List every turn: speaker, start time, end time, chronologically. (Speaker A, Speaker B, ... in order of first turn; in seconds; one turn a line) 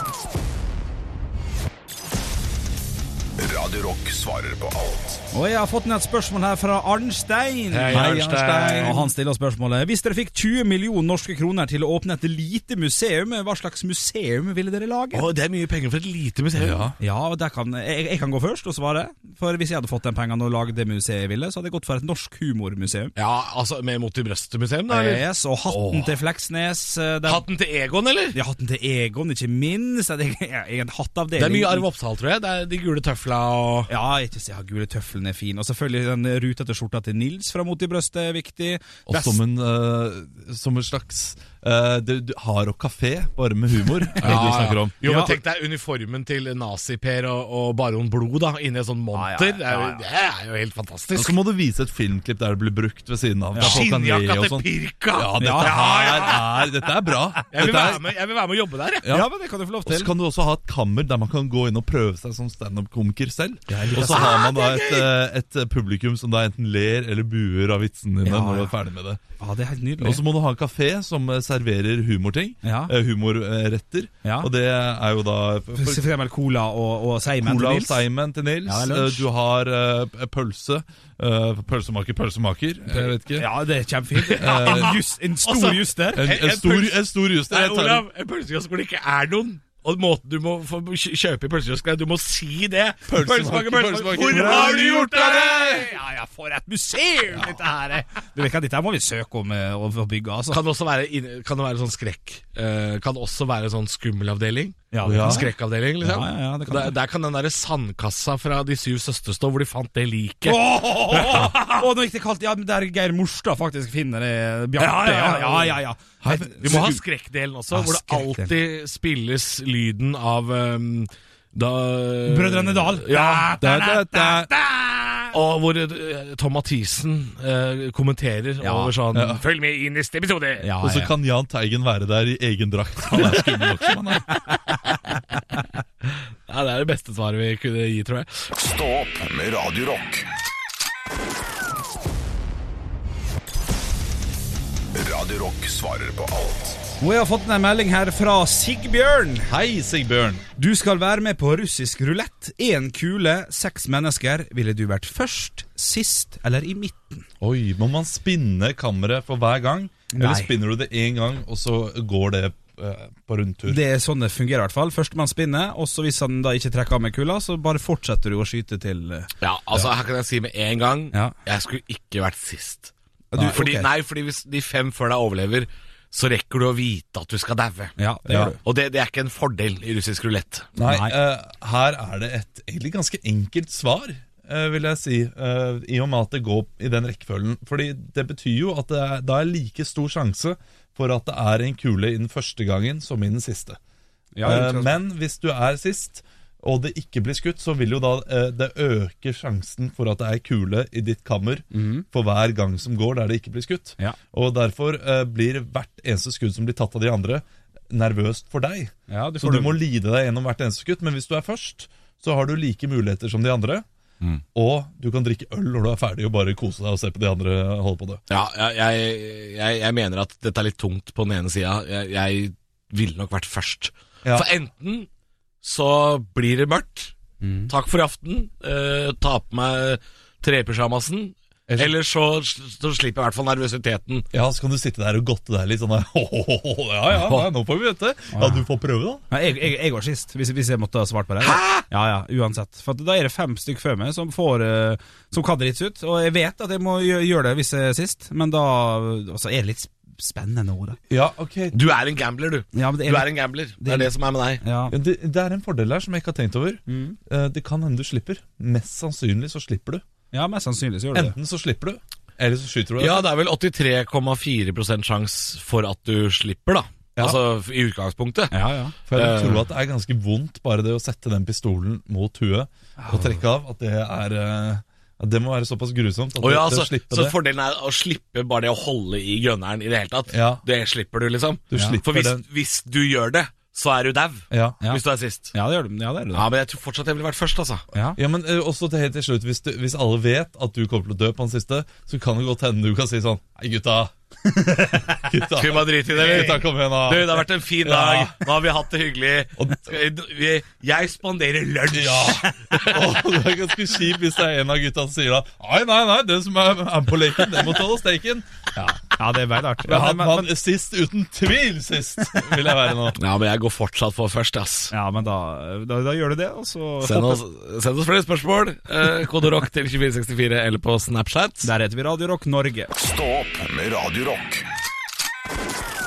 Speaker A: 3.4-5.2
Speaker B: 5.3-15.3
Speaker C: 7.7-9.0
Speaker D: 7.9-9.1
Speaker C: 15.1-16.9
Speaker D: 16.6-17.0
Speaker B: 17.0-23.1
Speaker C: 23.1-26.1
Speaker B: 24.9-27.4
Speaker C: 27.2-28.4
Speaker B: 28.3-31.8
Speaker C: 31.4-33.9
Speaker B: 33.9-39.4
Speaker D: 39.1-44.9
Speaker C: 44.2-51.4
Speaker B: 44.2-45.4
Speaker B: 49.1-50.0
Speaker D: 51.1-58.1
Speaker B: 53.5-53.8
Speaker C: 53.6-56.7
Speaker B: 55.4-55.8
Speaker C: 57.5-59.1
Speaker D: 59.0-59.3
Speaker B: 59.1-60.1
Speaker D: 59.8-69.2
Speaker B: 63.7-64.3
Speaker C: 64.0-65.1
Speaker B: 68.2-68.7
Speaker B: 69.4-70.2
Speaker D: 70.0-76.0
Speaker B: 72.6-72.9
Speaker B: 74.2-74.5
Speaker B: 75.8-78.0
Speaker D: 77.3-83.5
Speaker B: 78.6-79.3
Speaker B: 83.0-86.3
Speaker C: 84.2-95.9
Speaker D: 84.4-85.0
Speaker D: 86.1-88.0
Speaker D: 93.1-95.9
Speaker B: 94.2-100.6
Speaker C: 100.5-111.8
Speaker B: 104.9-105.5
Speaker D: 105.0-105.5
Speaker B: 106.0-106.9
Speaker B: 110.4-117.0
Speaker C: 114.8-115.8
Speaker D: 116.2-117.0
Speaker C: 116.6-123.8
Speaker B: 117.7-118.5
Speaker B: 122.2-125.3
Speaker D: 123.6-124.5
Speaker C: 125.3-130.7
Speaker B: 128.6-128.9
Speaker D: 129.1-129.4
Speaker B: 130.6-131.1
Speaker D: 130.8-134.4
Speaker C: 136.5-138.5
Speaker A: 138.5-140.3
Speaker A: 144.9-146.8
Speaker B: 147.0-149.5
Speaker D: 149.5-150.4
Speaker B: 150.6-157.2
Speaker D: 157.4-163.8
Speaker B: 160.1-160.5
Speaker B: 163.7-169.3
Speaker C: 169.4-180.7
Speaker B: 173.3-173.9
Speaker B: 178.0-178.6
Speaker D: 178.3-178.5
Speaker D: 180.8-193.8
Speaker B: 180.8-181.2
Speaker B: 194.3-195.0
Speaker D: 194.4-213.8
Speaker B: 201.7-202.0
Speaker B: 209.1-209.8
Speaker D: 214.5-218.2
Speaker C: 218.3-225.1
Speaker C: 225.6-227.1
Speaker B: 227.4-227.7
Speaker C: 227.7-234.3
Speaker D: 234.3-239.2
Speaker C: 237.1-237.5
Speaker B: 238.3-238.6
Speaker B: 239.3-251.0
Speaker C: 241.4-241.8
Speaker D: 251.1-251.8
Speaker C: 251.7-254.6
Speaker B: 252.7-254.9
Speaker D: 254.9-260.0
Speaker B: 256.9-257.2
Speaker B: 260.3-261.4
Speaker D: 261.1-263.3
Speaker C: 263.0-268.5
Speaker B: 268.5-268.9
Speaker D: 269.1-277.3
Speaker C: 269.1-269.6
Speaker B: 273.0-273.3
Speaker C: 276.4-285.5
Speaker D: 280.3-280.6
Speaker D: 281.7-282.4
Speaker B: 281.7-282.0
Speaker D: 284.5-284.8
Speaker B: 285.5-286.4
Speaker C: 286.3-287.8
Speaker B: 287.9-288.2
Speaker D: 288.1-294.1
Speaker B: 294.5-295.1
Speaker D: 295.1-298.4
Speaker C: 295.6-303.0
Speaker D: 299.6-299.8
Speaker D: 301.9-308.4
Speaker B: 308.8-310.5
Speaker D: 309.8-313.2
Speaker C: 313.2-314.9
Speaker B: 314.9-317.4
Speaker C: 317.0-321.7
Speaker B: 321.6-322.9
Speaker A: 322.9-324.7